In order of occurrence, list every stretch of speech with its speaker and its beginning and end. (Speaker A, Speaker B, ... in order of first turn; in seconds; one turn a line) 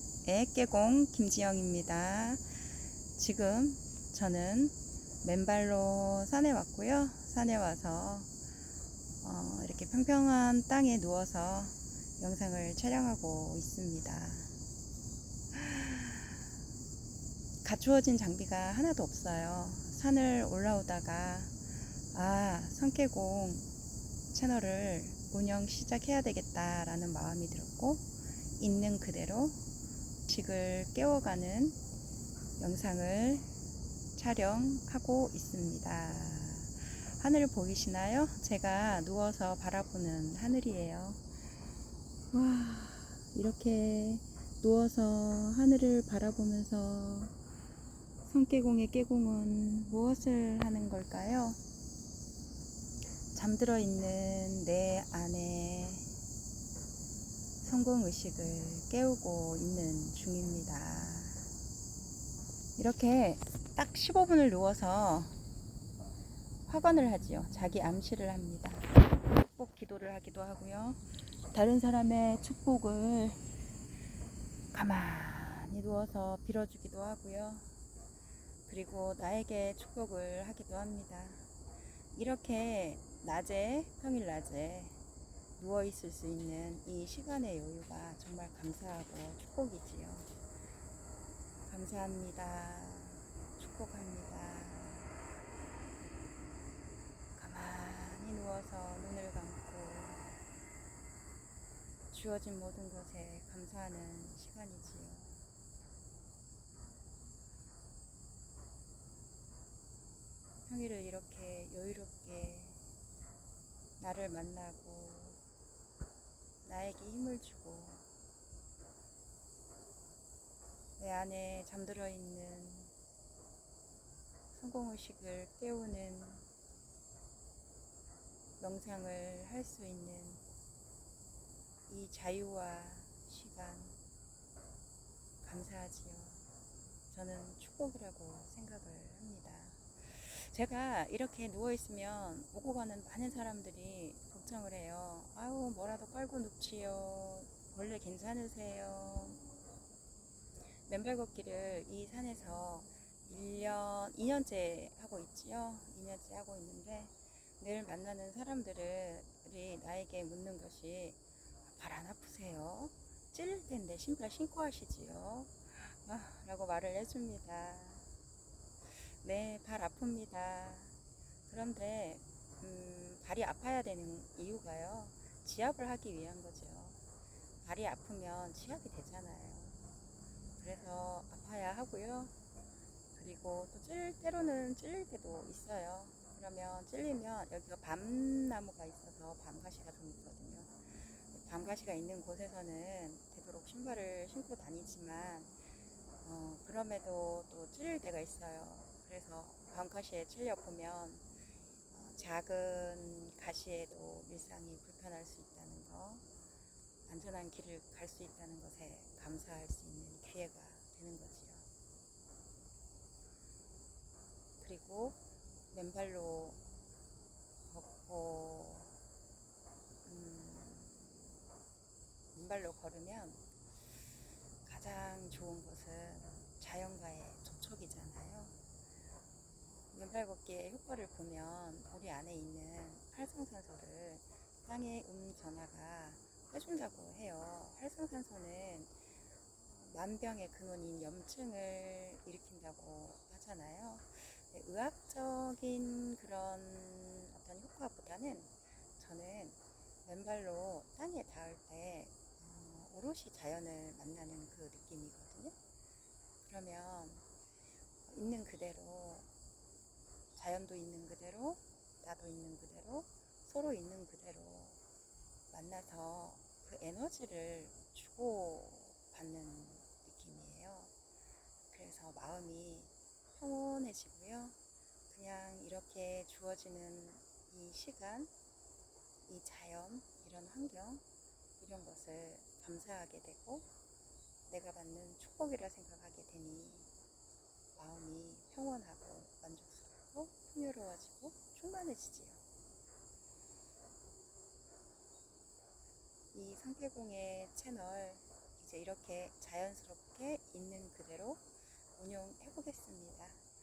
Speaker A: 0.2-2.5
Speaker A: 3.1-8.3
Speaker A: 9.2-14.5
Speaker A: 15.5-16.4
Speaker A: 17.6-21.5
Speaker A: 22.1-23.7
Speaker A: 24.3-28.1
Speaker A: 28.6-29.6
Speaker A: 30.3-31.8
Speaker A: 32.6-33.5
Speaker A: 34.1-41.2
Speaker A: 42.3-47.3
Speaker A: 48.2-51.6
Speaker A: 53.3-56.1
Speaker A: 57.6-61.5
Speaker A: 62.8-65.3
Speaker A: 66.7-73.4
Speaker A: 74.7-77.7
Speaker A: 78.7-81.4
Speaker A: 82.1-85.0
Speaker A: 85.6-90.3
Speaker A: 91.7-95.1
Speaker A: 97.3-100.3
Speaker A: 102.1-105.4
Speaker A: 110.7-112.8
Speaker A: 114.0-115.4
Speaker A: 116.6-118.1
Speaker A: 121.0-122.9
Speaker A: 124.5-126.5
Speaker A: 128.6-130.4
Speaker A: 131.9-134.0
Speaker A: 135.4-136.4
Speaker A: 137.1-149.4
Speaker A: 150.8-168.1
Speaker A: 168.9-170.9
Speaker A: 171.5-177.0
Speaker A: 177.6-179.8
Speaker A: 180.6-182.3
Speaker A: 183.2-195.5
Speaker A: 196.2-201.2
Speaker A: 201.9-206.2
Speaker A: 207.1-211.7
Speaker A: 214.6-215.2
Speaker A: 215.7-216.6
Speaker A: 217.7-219.0
Speaker A: 220.0-221.3
Speaker A: 222.3-223.4
Speaker A: 224.6-228.5
Speaker A: 229.9-238.9
Speaker A: 239.7-255.5
Speaker A: 256.4-257.2
Speaker A: 258.1-259.3
Speaker A: 260.3-264.8
Speaker A: 265.5-270.9
Speaker A: 271.7-274.6
Speaker A: 275.1-278.3
Speaker A: 279.2-281.0
Speaker A: 281.6-283.7
Speaker A: 284.5-286.9
Speaker A: 287.7-292.4
Speaker A: 296.3-301.4
Speaker A: 301.9-303.4